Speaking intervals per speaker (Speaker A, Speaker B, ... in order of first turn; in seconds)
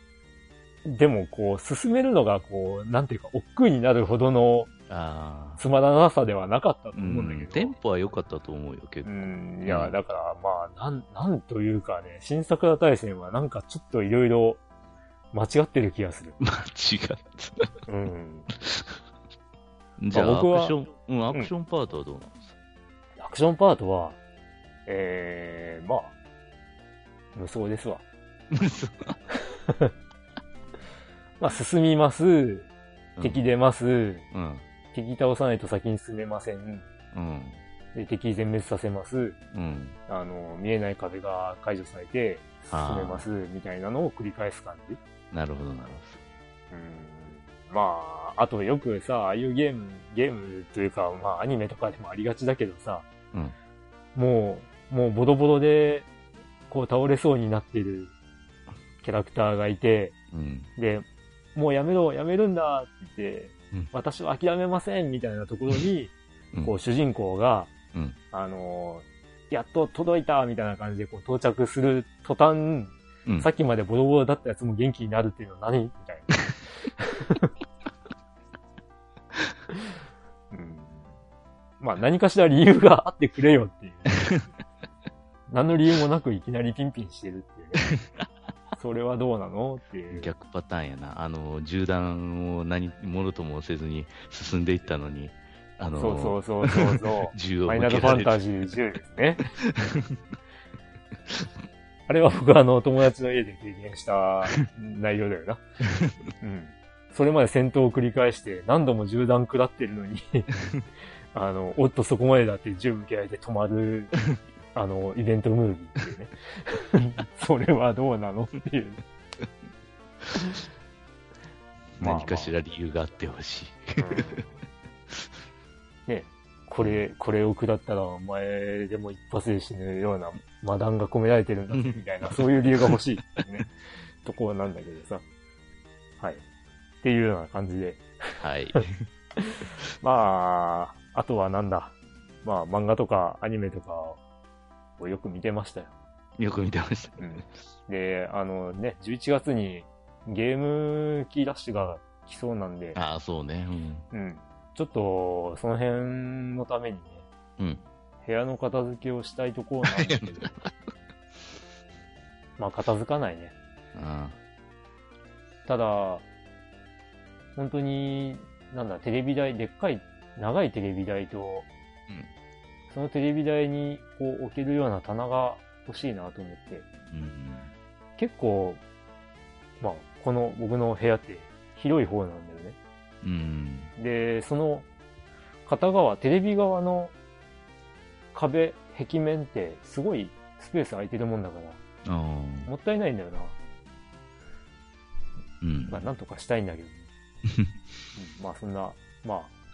Speaker A: 0.8-4.7, 5.6-7.8, 9.0-14.6, 15.3-16.4, 17.9-18.5, 20.1-21.5, 23.2-24.2, 24.9-26.1, 27.3-28.0, 31.4-32.7, 33.2-34.2, 34.9-36.8, 37.9-39.4, 40.1-45.0, 46.7-53.1, 54.1-56.1, 56.7-58.1, 59.0-60.1, 60.8-66.1, 66.6-67.7, 68.3-76.3, 77.0-77.5, 80.5-81.1, 81.8-84.3, 85.5-87.9, 88.8-90.3, 96.0-99.4, 102.1-105.6, 106.4-110.5, 111.3-114.1, 114.7-119.0, 122.0-122.5, 124.0-124.5, 126.1-133.7, 134.2-135.2, 137.0-138.1, 139.4-144.2, 145.0-145.9, 147.2-153.0, 154.1-157.2, 158.2-160.5, 162.6-163.5, 165.7-166.2, 167.6-171.7, 172.9-176.8, 178.2-178.8, 179.8-182.8, 184.0-184.9, 185.7-187.1, 188.3-191.8, 192.7-193.5, 195.9-197.1, 198.2-199.5
Speaker B: 4.9-5.6, 6.9-9.9, 16.4-17.7, 18.5-19.0, 20.0-22.5, 28.5-29.2, 33.1-33.4, 34.3-34.6, 37.1-37.6, 39.5-40.0, 42.7-43.3, 45.3-46.2, 60.3-60.7, 90.1-98.4, 99.7-100.1, 122.0-124.4, 131.7-132.0, 138.4-139.0, 146.4-147.5, 152.9-154.1, 157.6-157.8, 160.0-160.7, 163.9-164.3, 177.1-177.7, 183.2-183.9, 192.0-192.7, 195.6-196.1